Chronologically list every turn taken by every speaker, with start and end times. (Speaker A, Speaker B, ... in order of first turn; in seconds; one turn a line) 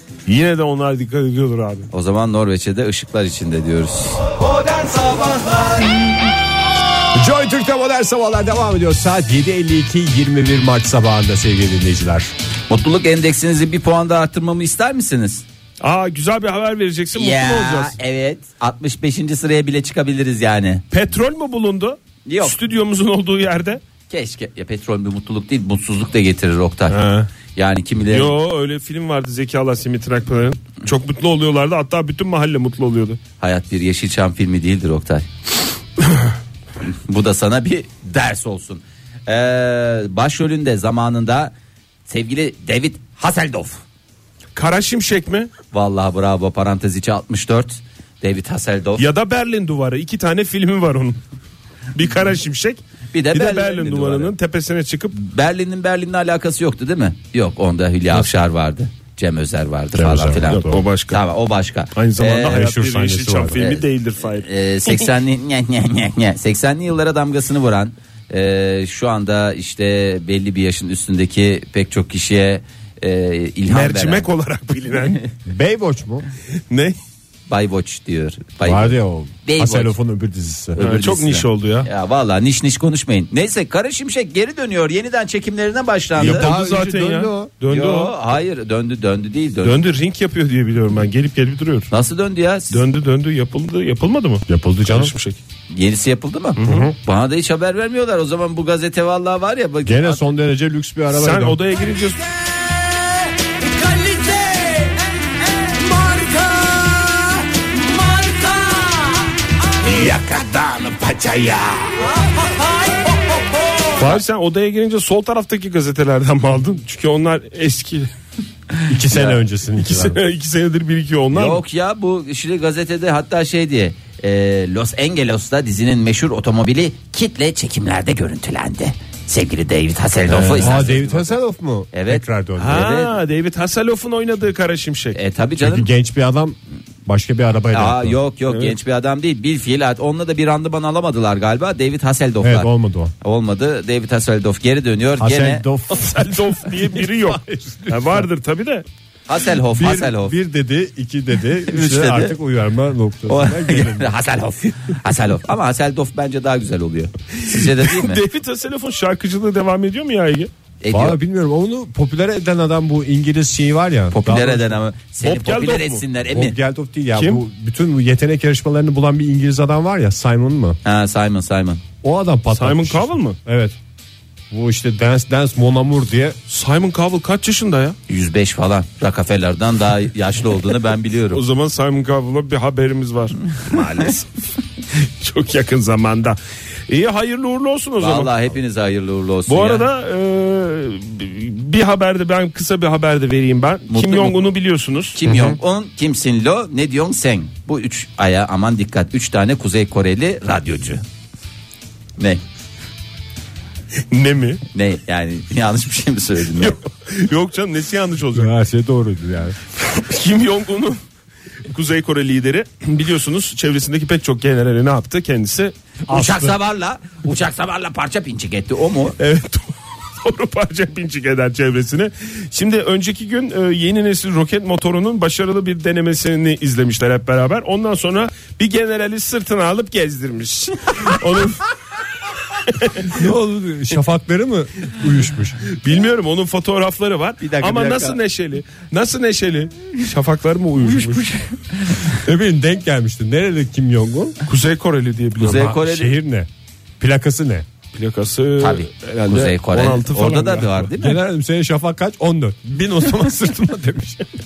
Speaker A: 0.3-1.9
Speaker B: 1.9-5.9
Speaker C: 7.1-12.3
Speaker B: 12.7-15.4
Speaker A: 15.8-18.0
Speaker B: 17.1-20.8
Speaker A: 20.9-23.8
Speaker B: 22.2-22.6
Speaker B: 24.1-27.0
Speaker A: 26.9-27.3
Speaker B: 27.6-28.4
Speaker A: 28.1-33.2
Speaker B: 33.4-35.3
Speaker B: 36.9-41.5
Speaker B: 42.1-43.8
Speaker A: 44.5-45.5
Speaker B: 45.7-49.1
Speaker A: 49.0-51.2
Speaker A: 51.9-52.8
Speaker B: 53.1-54.3
Speaker A: 53.3-55.1
Speaker B: 55.1-62.6
Speaker C: 59.9-60.8
Speaker A: 60.5-61.2
Speaker A: 62.0-65.1
Speaker C: 62.5-63.6
Speaker B: 63.5-74.3
Speaker A: 73.7-75.2
Speaker C: 75.5-76.3
Speaker A: 76.7-77.0
Speaker B: 77.5-80.0
Speaker C: 78.6-80.8
Speaker B: 80.8-86.5
Speaker A: 80.8-81.9
Speaker C: 86.2-87.5
Speaker A: 86.2-88.2
Speaker B: 87.7-89.8
Speaker A: 89.6-91.9
Speaker B: 91.9-92.8
Speaker A: 92.7-95.4
Speaker C: 94.5-95.1
Speaker B: 95.7-100.2
Speaker A: 96.6-96.9
Speaker C: 96.6-97.0
Speaker C: 99.8-101.6
Speaker A: 101.1-102.3
Speaker B: 103.9-104.9
Speaker B: 106.0-107.3
Speaker B: 108.2-109.0
Speaker B: 109.8-112.3
Speaker B: 113.1-114.2
Speaker A: 114.0-118.1
Speaker C: 118.9-120.2
Speaker B: 119.1-119.4
Speaker A: 119.8-121.6
Speaker B: 121.3-131.4
Speaker C: 130.3-132.9
Speaker A: 130.3-130.9
Speaker B: 131.9-133.2
Speaker A: 132.6-135.2
Speaker B: 135.1-135.9
Speaker C: 135.6-138.2
Speaker B: 137.7-142.7
Speaker A: 138.5-138.8
Speaker C: 142.4-143.1
Speaker B: 143.2-145.6
Speaker C: 145.2-148.3
Speaker A: 145.9-148.8
Speaker B: 149.3-150.3
Speaker C: 149.7-154.1
Speaker B: 151.7-152.3
Speaker B: 153.3-158.2
Speaker A: 157.4-160.5
Speaker B: 160.8-161.2
Speaker C: 160.9-164.8
Speaker B: 164.1-166.6
Speaker A: 165.2-166.0
Speaker C: 166.3-170.8
Speaker A: 167.2-167.4
Speaker B: 170.8-171.8
Speaker C: 172.0-173.8
Speaker A: 172.5-173.4
Speaker C: 174.5-176.4
Speaker A: 176.5-178.0
Speaker B: 178.1-181.4
Speaker A: 181.3-184.3
Speaker B: 183.7-184.2
Speaker A: 184.9-188.3
Speaker B: 188.0-189.9
Speaker A: 189.5-195.2
Speaker B: 193.9-194.4
Speaker B: 195.2-201.0
Speaker C: 195.3-195.6
Speaker A: 204.1-204.6
Speaker B: 204.7-206.8
Speaker A: 206.6-208.5
Speaker C: 208.3-209.6
Speaker A: 209.8-211.0
Speaker A: 211.7-215.7
Speaker B: 216.1-219.2
Speaker C: 216.1-216.5
Speaker A: 219.2-231.8
Speaker A: 232.4-233.3
Speaker C: 233.0-235.6
Speaker A: 235.7-241.3
Speaker B: 237.4-238.2
Speaker B: 241.0-242.2
Speaker C: 242.2-244.4
Speaker A: 244.5-245.7
Speaker B: 245.4-246.2
Speaker C: 245.4-246.5
Speaker C: 247.0-247.7
Speaker A: 247.9-250.9
Speaker B: 248.6-251.2
Speaker C: 251.0-254.3